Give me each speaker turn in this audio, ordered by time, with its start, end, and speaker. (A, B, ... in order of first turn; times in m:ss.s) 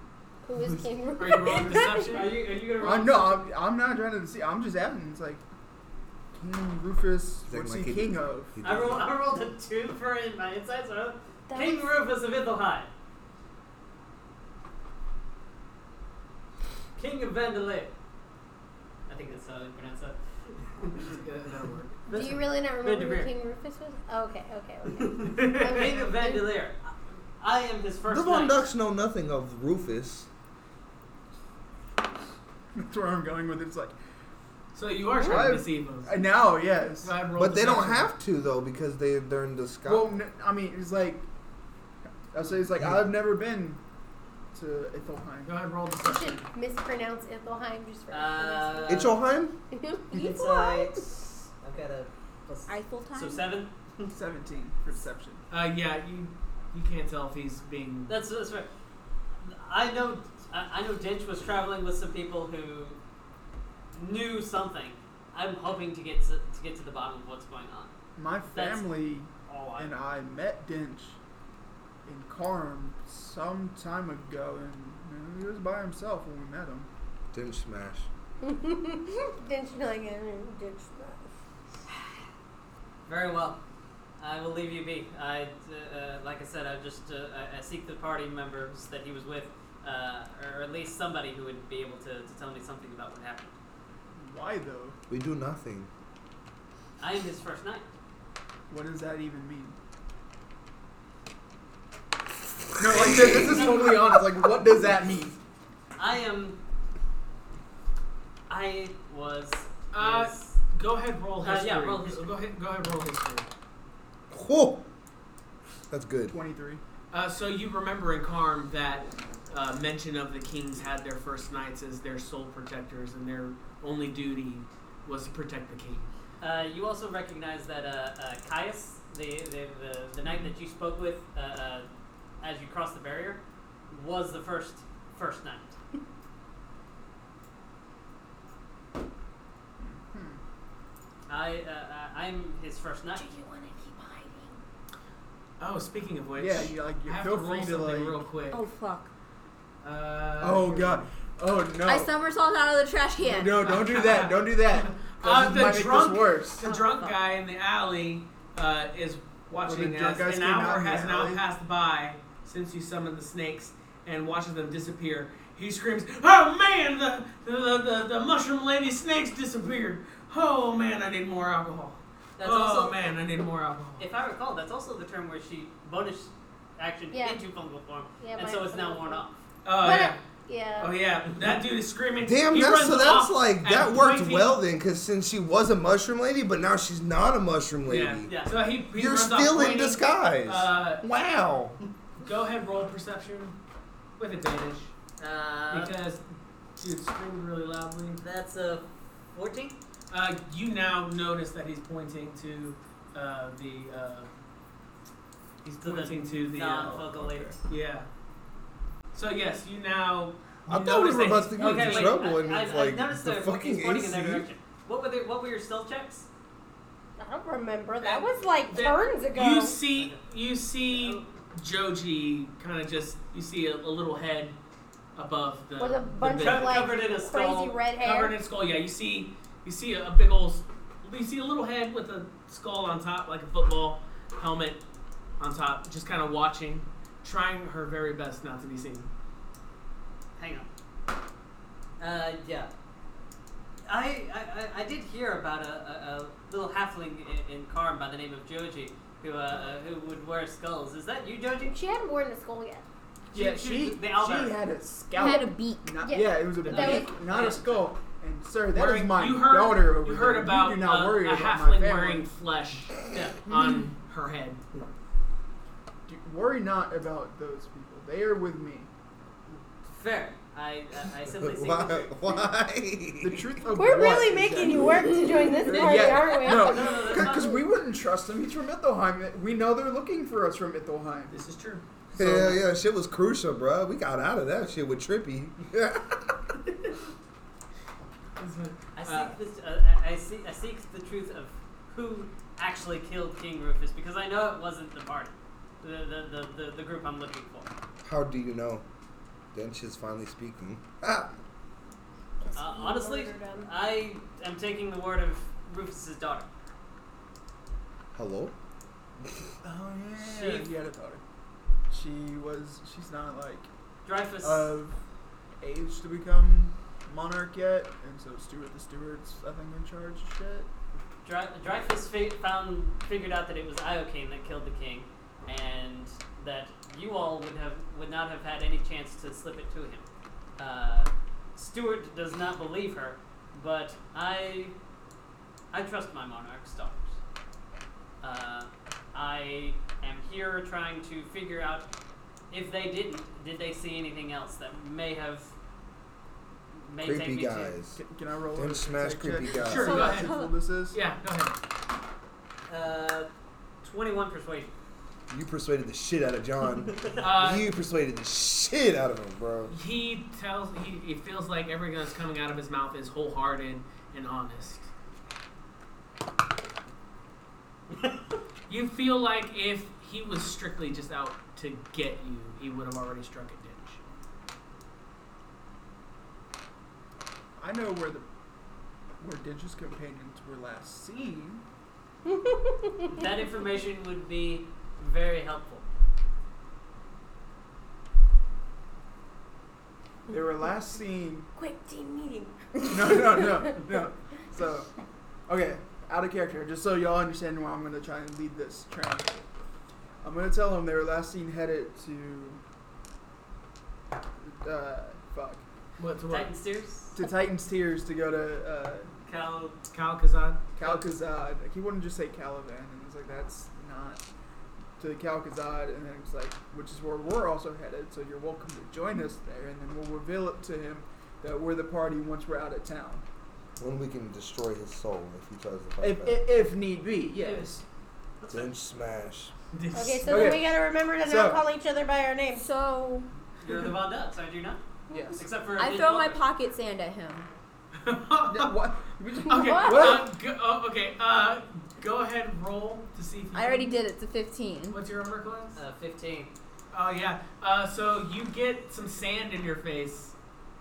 0:00.4-0:02.2 A
0:01.2-0:02.4 B
0:01.5-0:03.4 C
0:02.8-0:05.4 D
0:06.4-0:08.6 D
0:07.5-0:09.1 E
0:08.6-0:12.9 C
0:11.5-0:12.0 A
0:17.0-0:17.9 C
0:19.1-0:21.2 C
0:21.0-0:22.0 B
0:22.1-0:23.3 C
0:22.1-0:26.5 A
0:25.0-0:28.6 C
0:28.1-0:30.3 E
0:32.8-0:33.9 D
0:34.7-0:36.3 B
0:35.2-0:37.1 D
0:37.0-0:38.1 B
0:37.4-0:40.1 E
0:39.8-0:41.3 D
0:42.3-0:43.8 D
0:44.5-0:45.6 D
0:45.5-0:46.5 B
0:46.0-0:49.1 A
0:48.1-0:49.2 C
0:48.9-0:49.6 E
0:49.7-0:50.9 A
0:50.1-0:54.1 C
0:52.7-0:53.4 F
0:54.1-0:55.4 D
0:55.5-0:58.2 B
0:58.1-0:58.7 C
0:59.4-1:03.0 C
1:03.9-1:07.9 C
1:08.2-1:11.2 D
1:08.5-1:08.9 C
1:09.4-1:09.9 C
1:12.0-1:16.9 D
1:17.3-1:18.1 E
1:18.4-1:21.3 A
1:23.1-1:23.6 C
1:24.2-1:33.6 C
1:34.2-1:35.0 D
1:35.1-1:35.9 E
1:37.0-1:37.9 C
1:38.7-1:39.8 D
1:42.8-1:45.4 D
1:42.9-1:43.6 E
1:46.0-1:46.6 C
1:48.5-1:50.6 C
1:49.9-1:53.5 B
1:51.4-1:52.3 C
1:54.3-1:54.8 E
1:55.9-1:56.4 E
1:56.3-1:56.8 D
1:57.1-2:06.1 B
2:06.4-2:11.9 C
2:12.4-2:15.8 C
2:19.8-2:20.4 D
2:21.3-2:23.3 C
2:23.2-2:24.6 A
2:25.6-2:28.6 B
2:26.4-2:28.2 D
2:28.5-2:29.1 F
2:29.8-2:31.0 B
2:30.4-2:32.1 D
2:31.8-2:33.6 F
2:33.2-2:36.7 D
2:33.6-2:54.0 B
2:36.6-2:37.2 F
2:39.6-2:41.4 D
2:52.4-2:53.0 C
2:54.0-2:59.4 C
2:57.1-2:57.4 A
2:58.2-2:59.2 A
2:59.6-3:00.2 B
2:59.8-3:00.9 A
3:00.8-3:04.6 B
3:02.2-3:08.3 E
3:07.9-3:11.0 B
3:08.3-3:08.6 C
3:08.9-3:11.8 E
3:12.2-3:13.6 B
3:14.2-3:15.0 B
3:15.2-3:15.9 C
3:15.7-3:16.2 B
3:16.8-3:18.2 B
3:18.2-3:19.8 C
3:20.1-3:24.3 B
3:25.6-3:27.0 B
3:25.8-3:27.6 C
3:26.8-3:27.6 D
3:27.7-3:28.1 B
3:29.1-3:32.2 B
3:30.7-3:34.5 E
3:31.6-3:36.3 C
3:37.2-3:39.8 A
3:38.0-3:44.6 B
3:40.0-3:40.2 C
3:40.9-3:41.3 C
3:45.2-3:47.0 B
3:45.8-3:48.4 A
3:46.3-3:47.8 C
3:48.0-3:54.8 B
3:55.4-3:59.1 B
4:00.4-4:00.7 C
4:02.0-4:02.7 C
4:03.9-4:11.8 C
4:11.7-4:12.8 A
4:13.3-4:22.3 D
4:13.3-4:14.6 C
4:15.2-4:16.0 F
4:15.2-4:15.4 A
4:16.0-4:17.1 A
4:16.6-4:17.1 B
4:16.6-4:17.9 C
4:18.7-4:24.6 B
4:23.1-4:23.4 C
4:26.1-4:28.9 D
4:29.5-4:32.2 C
4:31.3-4:33.5 E
4:33.2-4:41.4 D
4:33.7-4:37.4 A
4:35.7-4:37.6 C
4:41.3-4:41.8 B
4:42.2-4:46.4 E
4:42.2-4:42.6 D
4:48.4-4:49.3 B
4:49.0-4:57.7 C
4:58.0-4:58.8 E
4:59.5-5:01.3 E
5:02.5-5:03.7 A
5:02.6-5:06.5 C
5:08.1-5:08.6 E
5:09.6-5:11.2 D
5:10.2-5:10.7 C
5:11.9-5:13.7 D
5:14.0-5:14.8 C
5:14.4-5:15.0 D
5:15.6-5:20.7 D
5:21.2-5:30.1 C
5:30.6-5:34.8 C
5:35.7-5:37.2 C
5:38.2-5:41.9 C
5:42.5-5:45.5 C
5:46.8-5:47.8 C
5:47.0-5:48.0 E
5:48.0-5:51.0 D
5:48.6-5:50.0 E
5:49.6-5:50.4 B
5:49.7-5:50.6 F
5:50.9-5:51.6 B
5:52.7-5:53.3 C
5:53.8-5:54.7 C
5:55.3-5:59.7 E
5:57.2-5:57.7 B
5:59.7-6:04.9 B
6:07.9-6:08.3 C
6:08.7-6:14.0 B
6:17.6-6:18.3 D
6:19.2-6:21.6 D
6:22.3-6:23.1 A
6:23.1-6:25.8 C
6:30.3-6:31.5 D
6:31.6-6:32.6 A
6:32.9-6:34.9 D
6:35.5-6:39.4 D
6:40.2-6:42.6 D
6:44.4-6:45.6 D
6:46.0-6:46.5 B
6:46.3-6:47.2 C
6:47.1-6:49.1 D
6:49.3-6:49.8 C
6:49.9-6:51.0 B
6:50.8-6:54.2 D
6:55.0-7:03.2 D
7:03.8-7:06.6 E
7:06.0-7:07.8 D
7:08.4-7:08.7 C
7:08.5-7:09.5 E
7:09.7-7:10.6 B
7:09.9-7:12.6 A
7:10.3-7:11.6 D
7:12.5-7:13.3 F
7:13.6-7:14.8 C
7:15.1-7:15.4 D
7:15.4-7:16.4 C
7:15.8-7:17.5 F
7:18.0-7:18.8 B
7:18.5-7:20.3 D
7:19.4-7:20.2 A
7:19.5-7:24.0 B
7:23.5-7:25.0 F
7:24.9-7:25.8 B
7:25.8-7:26.5 C
7:26.9-7:30.3 B